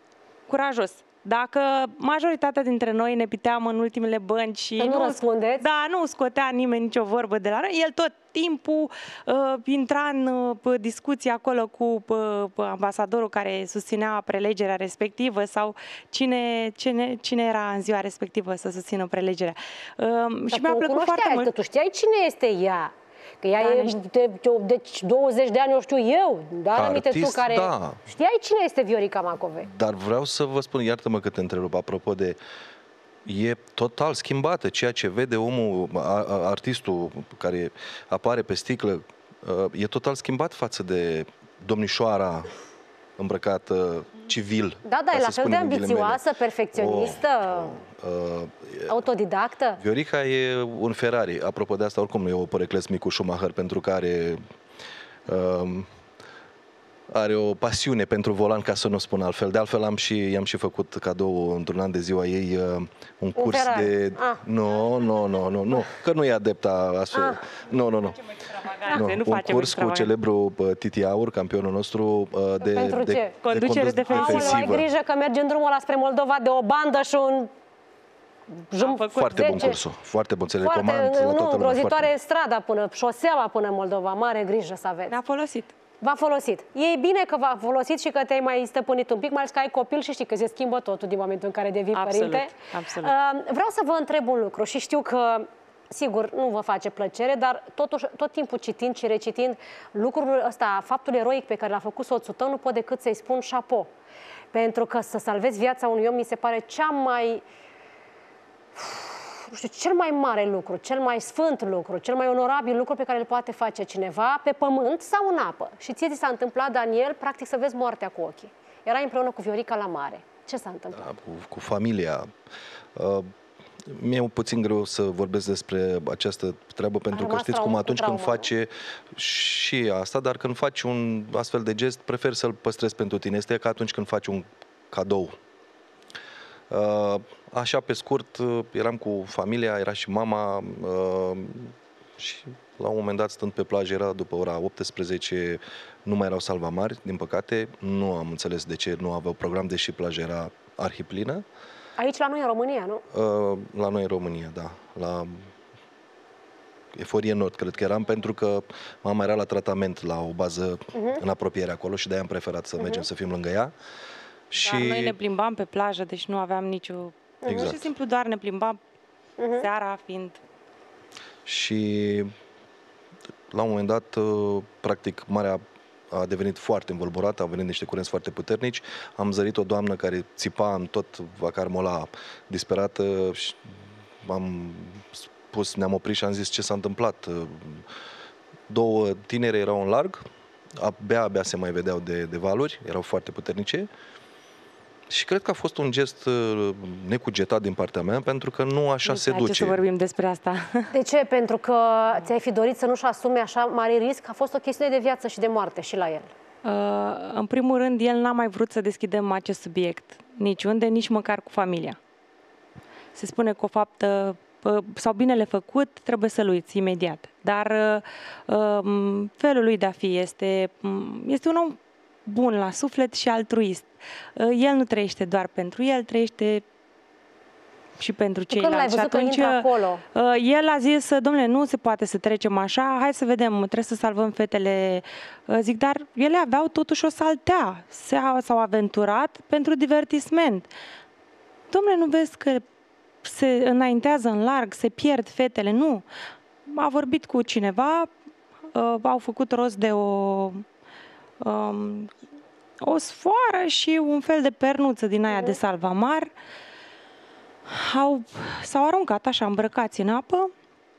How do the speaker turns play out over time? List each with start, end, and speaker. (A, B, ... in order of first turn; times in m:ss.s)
0:00.5-0:21.5 A
0:04.8-0:05.7 B
0:20.5-0:29.7 B
0:23.6-0:24.0 A
0:26.7-0:28.0 C
0:29.6-0:32.4 C
0:33.3-0:42.5 C
0:43.2-0:46.2 C
0:44.8-0:47.8 B
0:46.7-0:48.9 C
0:48.9-0:49.8 B
0:49.8-0:54.4 C
0:55.3-0:55.9 C
0:57.1-1:08.2 C
1:03.4-1:04.4 B
1:07.1-1:07.4 B
1:08.4-1:10.1 A
1:08.9-1:14.9 C
1:12.6-1:13.4 B
1:13.4-1:14.8 A
1:14.1-1:17.5 B
1:18.5-1:19.8 B
1:18.8-1:19.6 A
1:19.2-1:22.1 C
1:20.6-1:25.2 B
1:25.1-1:25.7 A
1:26.0-1:43.9 B
1:31.9-1:33.1 A
1:44.5-1:47.4 B
1:48.8-2:01.1 B
2:01.0-2:02.2 C
2:03.0-2:03.3 C
2:03.9-2:15.4 C
2:07.1-2:08.5 B
2:16.7-2:31.4 C
2:32.0-2:33.0 B
2:33.1-2:35.5 C
2:37.0-2:43.7 C
2:40.9-2:41.2 B
2:42.8-2:43.1 B
2:44.5-2:45.2 C
2:44.6-2:48.8 A
2:47.4-2:47.7 B
2:47.5-2:47.9 C
2:49.4-2:49.7 B
2:49.6-2:50.4 A
2:51.5-2:52.3 C
2:53.5-3:03.6 C
3:04.2-3:07.8 C
3:08.7-3:10.2 C
3:10.8-3:13.9 C
3:15.1-3:19.8 C
3:19.0-3:20.9 A
3:20.9-3:26.3 B
3:26.6-3:32.0 A
3:33.2-3:46.6 A
3:48.0-4:00.7 A
3:48.5-3:50.0 B
4:01.7-4:02.6 A
4:03.2-4:06.0 A
4:06.7-4:08.1 A
4:08.7-4:10.6 A
4:11.4-4:12.1 A
4:12.8-4:16.3 A
4:15.3-4:15.6 B
4:17.7-4:20.5 A